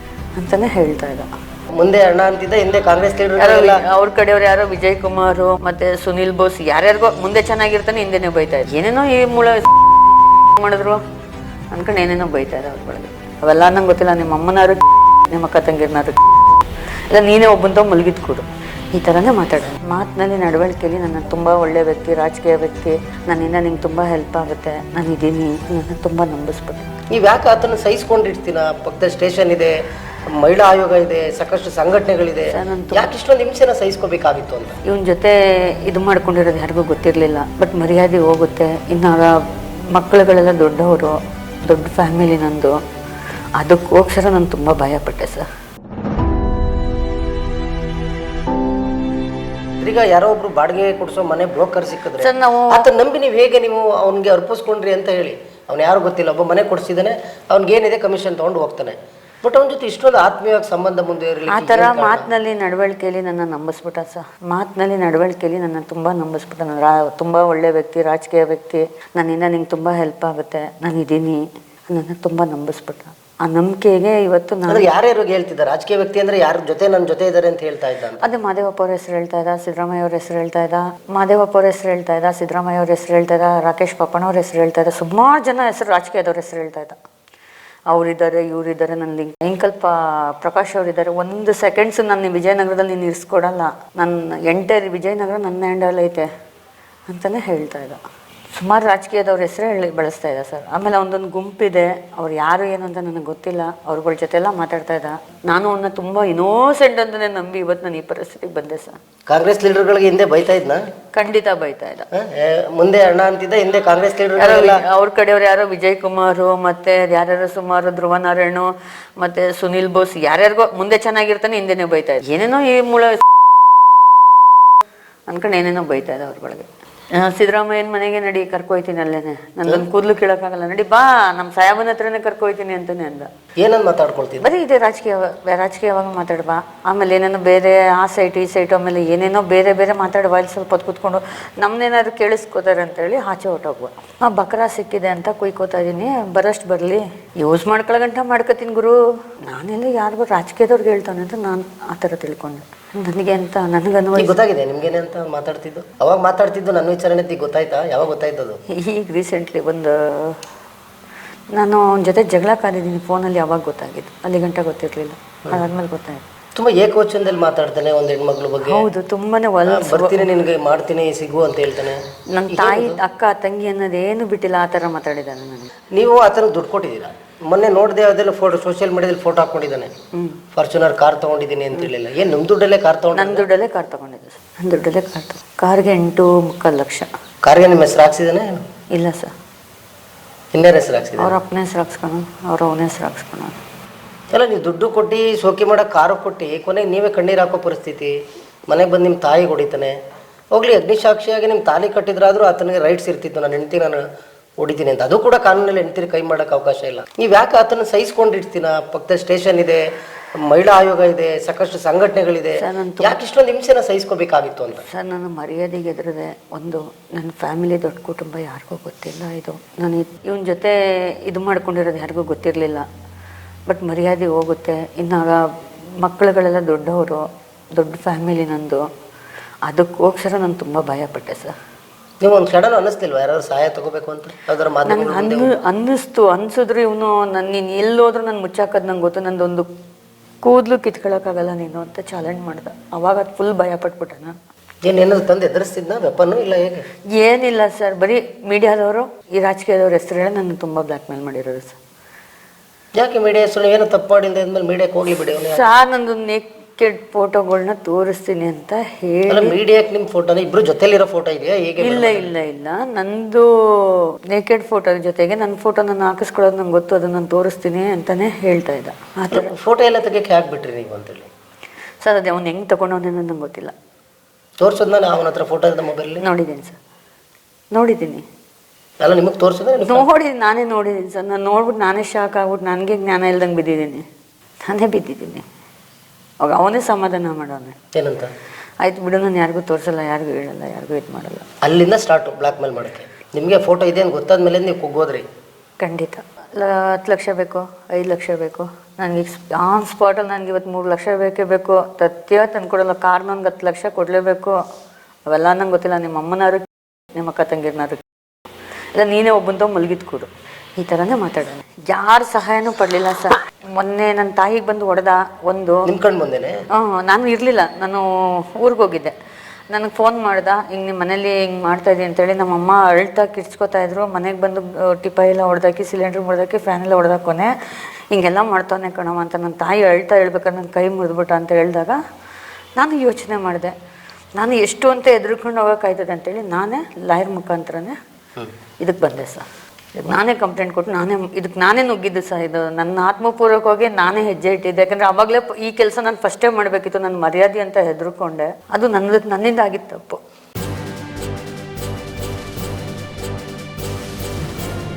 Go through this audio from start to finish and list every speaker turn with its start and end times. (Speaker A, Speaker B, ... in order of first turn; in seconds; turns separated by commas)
Speaker A: 0.3-1.3, Speaker B: 1.7-3.8, Speaker A: 3.4-9.7, Speaker A: 10.6-11.0, Speaker A: 11.7-16.2, Speaker A: 17.1-26.9, Speaker B: 27.1-29.7, Speaker B: 30.4-34.8, Speaker A: 32.5-33.1, Speaker A: 34.9-42.8, Speaker A: 43.6-45.5, Speaker B: 49.8-62.3, Speaker A: 52.2-52.9, Speaker A: 61.5-74.9, Speaker B: 74.7-78.3, Speaker A: 78.2-87.0, Speaker A: 87.9-96.3, Speaker A: 97.1-98.0, Speaker A: 98.5-109.0, Speaker B: 109.3-110.8, Speaker A: 111.1-112.1, Speaker B: 112.1-114.8, Speaker A: 114.3-123.3, Speaker A: 125.3-133.3, Speaker B: 133.6-134.5, Speaker A: 134.4-154.4, Speaker B: 154.2-158.6, Speaker A: 158.7-160.4, Speaker A: 161.5-166.2, Speaker B: 166.5-168.9, Speaker A: 168.6-170.3, Speaker B: 169.7-173.0, Speaker A: 172.3-175.7, Speaker B: 175.9-179.9, Speaker A: 180.1-180.4, Speaker B: 180.5-183.4, Speaker A: 183.1-187.1, Speaker B: 187.4-188.6, Speaker A: 188.9-189.3, Speaker B: 190.5-191.3, Speaker A: 191.2-193.6, Speaker B: 194.3-198.1, Speaker B: 198.7-199.9, Speaker B: 200.5-204.0, Speaker B: 204.6-209.8, Speaker B: 210.4-214.8, Speaker A: 212.6-213.2, Speaker A: 214.8-222.9, Speaker A: 223.7-228.8, Speaker A: 229.7-231.5, Speaker B: 232.2-235.5, Speaker A: 234.8-239.7, Speaker A: 240.4-244.3, Speaker B: 244.8-246.8, Speaker A: 247.1-251.8, Speaker B: 253.0-255.7, Speaker A: 255.4-259.5, Speaker B: 259.3-262.3, Speaker A: 261.8-269.5, Speaker B: 269.3-271.3, Speaker A: 272.0-273.7, Speaker B: 274.6-276.2, Speaker A: 276.2-276.8, Speaker A: 277.7-278.2, Speaker B: 279.0-280.1, Speaker A: 279.9-284.0, Speaker A: 284.6-285.4, Speaker A: 286.4-287.8, Speaker B: 287.9-288.3, Speaker A: 288.8-291.4, Speaker B: 291.6-295.2, Speaker A: 295.8-304.6, Speaker A: 305.3-308.0, Speaker A: 308.9-315.9, Speaker B: 315.9-316.6, Speaker A: 316.7-319.1, Speaker A: 319.7-327.5, Speaker A: 328.1-332.0, Speaker A: 332.8-333.7, Speaker A: 334.4-338.0, Speaker A: 338.8-339.4, Speaker A: 340.0-350.2